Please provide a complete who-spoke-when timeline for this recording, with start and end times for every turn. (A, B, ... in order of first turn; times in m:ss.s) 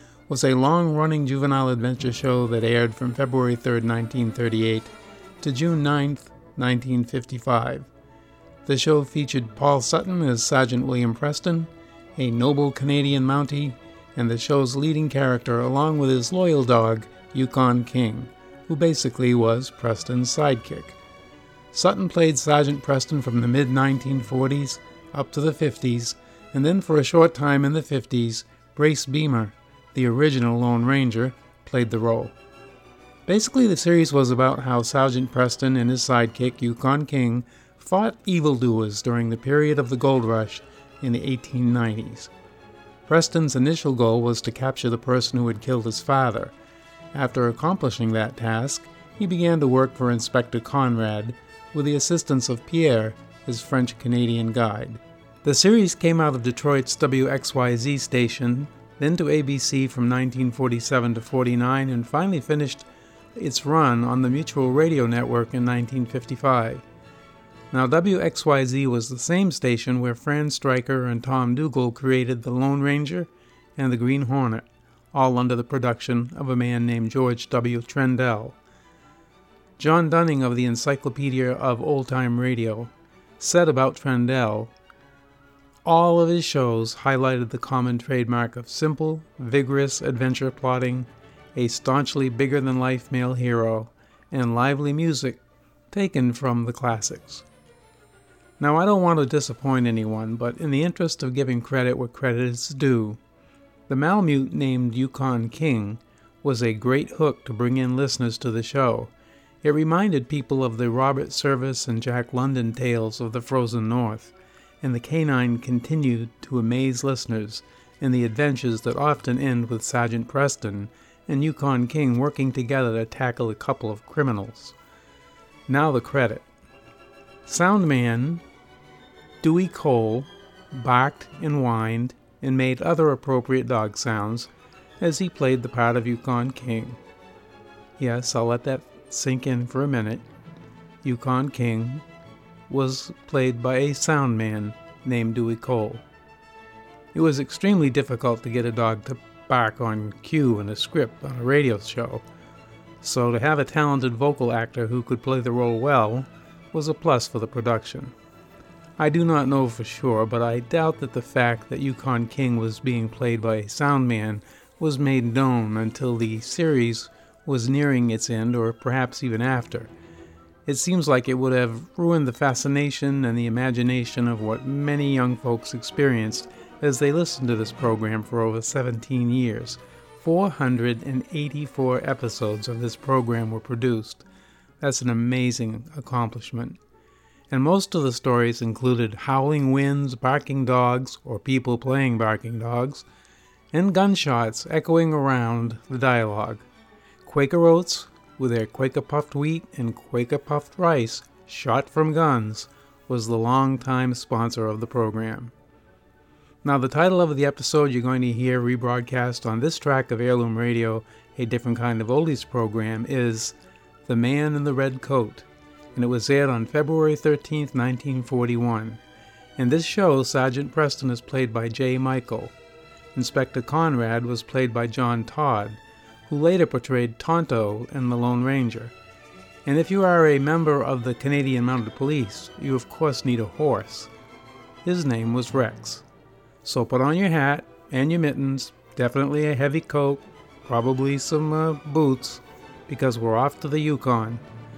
0:00.3-0:04.9 A
0:05.4-0:07.9 A
0:08.6-0:21.0 A
0:21.7-0:32.3 A
0:33.3-0:42.3 A
0:43.1-0:46.5 A
0:47.1-1:06.8 A
1:07.7-1:18.6 A
1:19.8-1:24.7 A
1:25.8-1:35.4 A
1:35.9-1:37.4 A
1:38.6-1:43.2 A
1:43.9-1:49.1 A
1:49.6-2:04.7 A
2:05.7-2:06.4 A
2:07.4-2:08.4 A
2:09.4-2:14.5 A
2:15.0-2:17.0 A
2:18.0-2:20.2 A
2:21.0-2:22.0 A
2:22.7-2:26.0 A
2:27.1-2:32.2 A
2:33.0-2:38.1 A
2:39.0-2:49.9 A
2:50.6-3:04.2 A
3:04.8-3:06.8 A
3:07.5-3:13.0 A
3:13.7-3:16.6 A
3:17.2-3:25.5 A
3:26.6-3:33.5 A
3:34.0-3:39.0 A
3:39.6-3:42.5 A
3:43.1-3:48.9 A
3:49.6-3:54.1 A
3:54.8-3:56.0 A
3:56.6-4:04.4 A